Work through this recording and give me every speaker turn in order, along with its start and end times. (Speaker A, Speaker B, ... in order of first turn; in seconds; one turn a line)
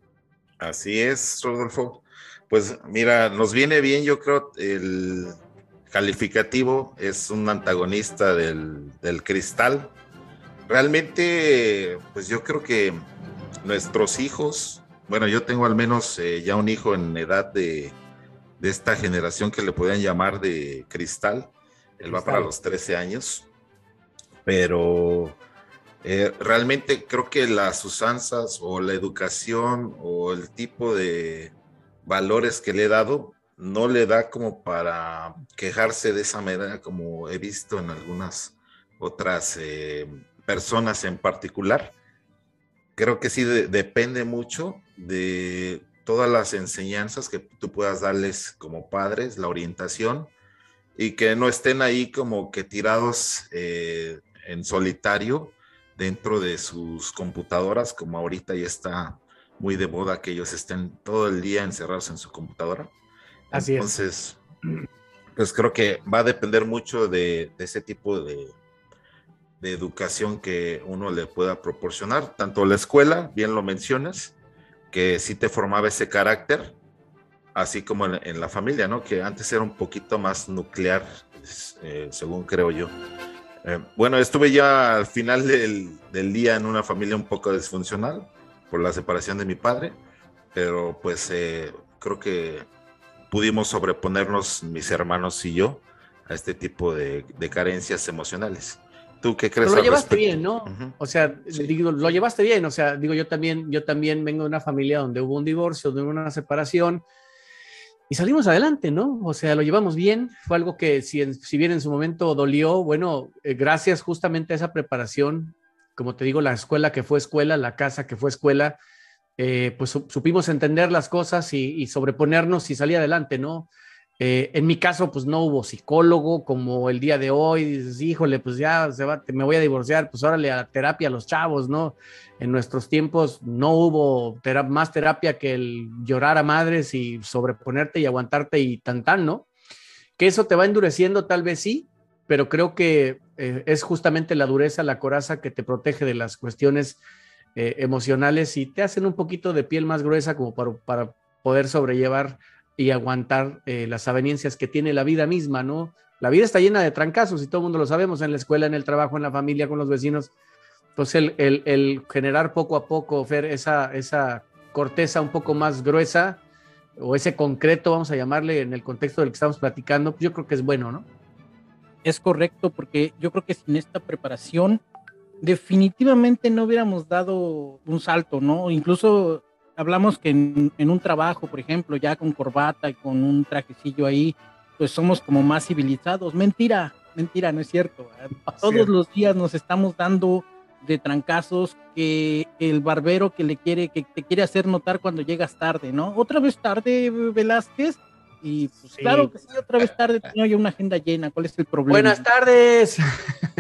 Speaker A: 0.6-5.4
Speaker A: 5.9-9.9
Speaker A: 10.7-13.0
Speaker A: 13.6-18.0
Speaker A: 18.6-23.5
Speaker B: 22.1-22.5
Speaker A: 24.5-25.4
Speaker A: 26.0-31.5
Speaker A: 32.1-41.9
Speaker A: 43.0-50.3
Speaker A: 51.0-62.9
Speaker A: 63.5-64.4
Speaker B: 63.5-63.9
Speaker A: 65.4-68.5
Speaker A: 69.6-74.3
Speaker A: 74.9-76.8
Speaker A: 77.5-82.9
Speaker A: 83.6-90.0
Speaker A: 90.5-92.7
Speaker A: 93.3-101.0
Speaker B: 99.6-107.0
Speaker A: 101.5-102.2
Speaker B: 108.1-118.8
Speaker B: 119.4-139.5
Speaker B: 140.2-147.0
Speaker B: 147.6-160.3
Speaker B: 161.0-166.4
Speaker B: 167.0-171.1
Speaker C: 172.0-174.8
Speaker C: 175.4-202.2
Speaker B: 188.5-188.9
Speaker B: 198.9-199.3
Speaker B: 201.9-203.0